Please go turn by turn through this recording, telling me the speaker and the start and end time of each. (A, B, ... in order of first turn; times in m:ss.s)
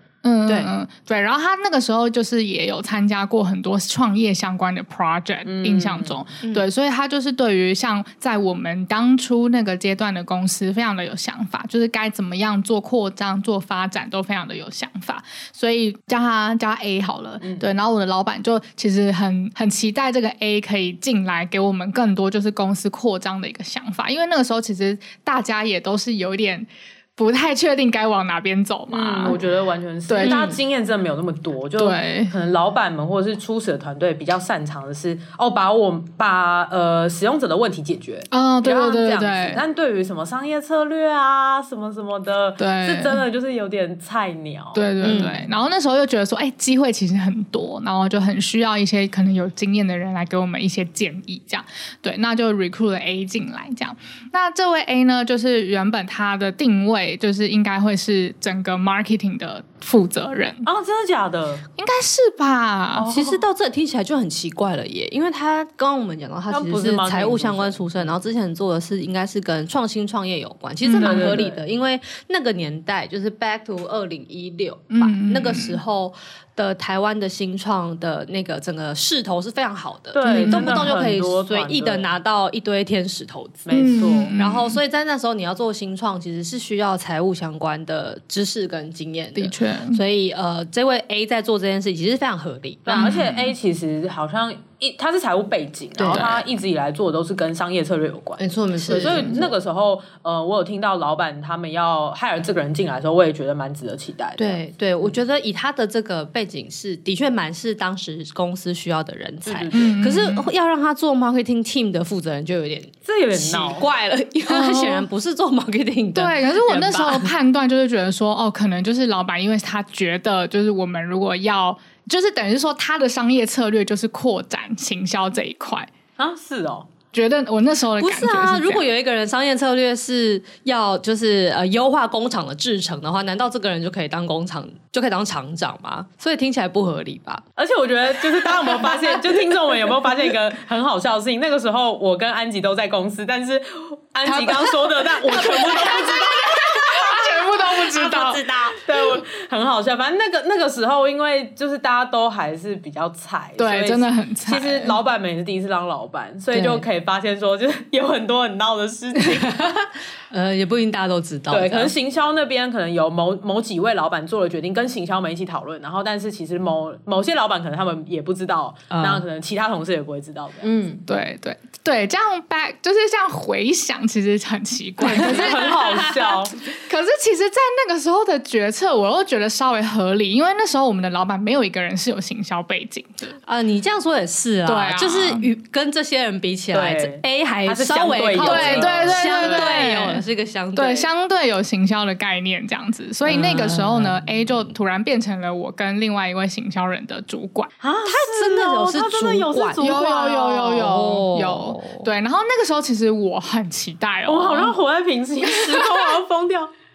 0:00.2-0:29.4 A
0:05.4-0:06.2 B
0:17.4-0:17.7 B
0:28.9-0:45.4 B
0:30.1-0:30.5 A
0:30.2-0:30.5 C
0:31.8-0:32.3 A
0:38.3-0:39.6 A
0:42.6-0:43.2 A
0:44.7-1:00.7 A
0:45.0-0:45.3 C
1:00.6-1:01.6 B
1:01.8-1:03.1 A
1:02.9-1:03.4 B
1:03.1-1:33.1 C
1:06.5-1:08.2 B
1:10.8-1:11.4 A
1:10.9-1:11.6 B
1:14.9-1:15.8 A
1:20.1-1:22.1 B
1:20.2-1:20.8 A
1:23.6-1:24.3 B
1:23.7-1:24.8 A
1:29.4-1:30.0 A
1:32.8-1:45.2 B
1:32.9-1:33.5 A
1:36.0-1:36.4 C
1:38.4-1:39.5 C
1:44.4-1:57.3 C
1:49.4-1:50.0 B
1:49.7-1:50.5 A
1:53.0-1:53.9 B
1:54.5-1:55.0 A
1:56.1-2:05.9 A
2:06.2-2:06.9 B
2:07.1-2:08.8 A
2:08.0-2:17.4 C
2:17.6-2:27.5 B
2:24.2-2:26.1 C
2:25.6-2:28.4 A
2:27.9-2:28.8 C
2:28.7-2:39.6 B
2:33.6-2:35.0 A
2:36.5-2:36.8 C
2:39.2-2:41.9 C
2:41.5-2:51.0 B
2:48.9-2:49.2 C
2:50.7-2:50.9 C
2:51.1-2:55.8 A
2:55.0-2:56.6 B
2:55.1-2:56.4 C
2:56.8-3:03.4 A
3:03.5-3:11.1 C
3:04.6-3:05.5 A
3:06.7-3:09.8 B
3:08.4-3:10.2 A
3:10.8-3:17.7 A
3:13.2-3:14.2 C
3:17.8-3:20.9 B
3:18.0-3:20.0 C
3:19.8-3:24.8 A
3:20.7-3:22.1 C
3:24.3-3:26.7 B
3:25.5-3:26.1 A